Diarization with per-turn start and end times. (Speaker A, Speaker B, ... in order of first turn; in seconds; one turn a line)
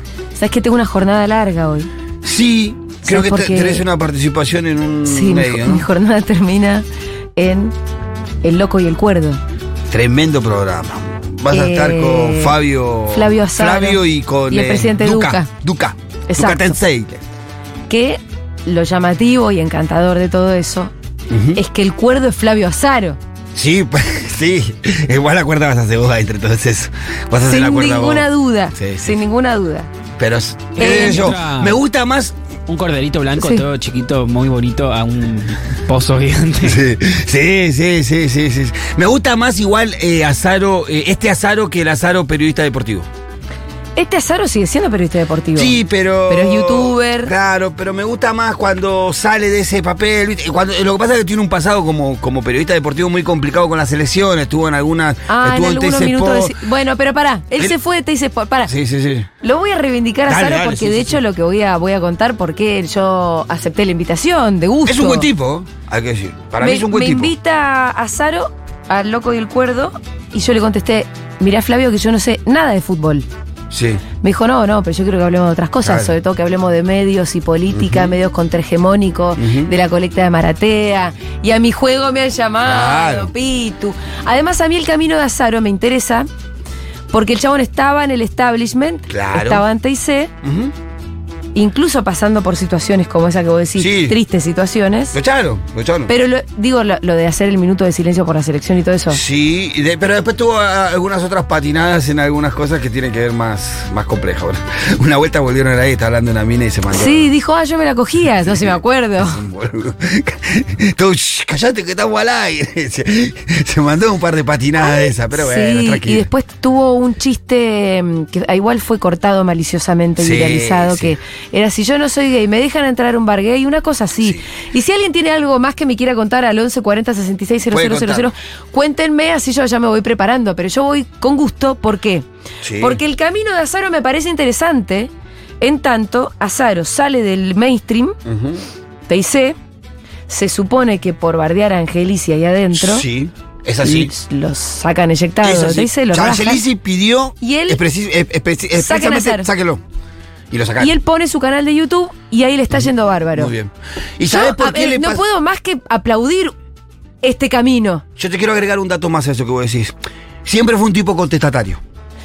Speaker A: 0.3-1.9
Speaker B: 2.2-5.8
Speaker A: 3.0-3.8
Speaker A: 5.0-7.7
Speaker A: 8.4-9.4
Speaker B: 9.9-17.2
Speaker A: 11.5-12.6
Speaker A: 13.1-15.5
Speaker A: 16.3-16.8
Speaker A: 17.9-20.9
Speaker B: 21.3-21.6
Speaker A: 21.5-23.2
Speaker B: 23.5-29.2
Speaker A: 27.4-29.9
Speaker B: 30.2-32.3
Speaker A: 30.8-31.3
Speaker C: 30.8-31.8
Speaker C: 32.7-36.8
Speaker A: 33.4-33.6
Speaker B: 36.6-43.1
Speaker A: 44.0-45.8
Speaker B: 45.5-56.5
Speaker A: 46.3-47.3
Speaker A: 55.3-58.7
Speaker B: 58.7-59.3
Speaker A: 59.4-65.3
Speaker B: 60.3-61.2
Speaker B: 64.8-67.3
Speaker A: 66.6-73.2
Speaker B: 73.7-74.0
Speaker A: 74.2-86.3
Speaker B: 75.8-76.1
Speaker B: 77.7-78.2
Speaker B: 79.4-79.7
Speaker B: 82.6-83.3
Speaker A: 87.1-90.3
Speaker B: 89.1-89.6
Speaker B: 90.4-90.7
Speaker A: 91.5-95.2
Speaker B: 93.8-94.2
Speaker B: 95.1-96.1
Speaker A: 96.1-99.2
Speaker B: 99.1-107.3
Speaker A: 106.9-109.4
Speaker B: 108.5-116.2
Speaker A: 114.8-132.3
Speaker B: 120.2-121.2
Speaker B: 124.2-124.5
Speaker B: 127.7-128.3
Speaker B: 132.6-133.0
Speaker A: 132.8-138.2
Speaker B: 138.2-138.6
Speaker A: 139.1-139.6
Speaker A: 140.3-143.1
Speaker B: 142.7-144.1
Speaker A: 143.8-146.6
Speaker B: 145.4-149.8
Speaker A: 147.4-147.8
Speaker A: 148.8-149.5
Speaker B: 150.5-150.9
Speaker A: 150.8-153.5
Speaker B: 152.7-155.2
Speaker A: 154.3-156.5
Speaker A: 157.2-158.0
Speaker B: 158.2-159.9
Speaker B: 160.4-161.8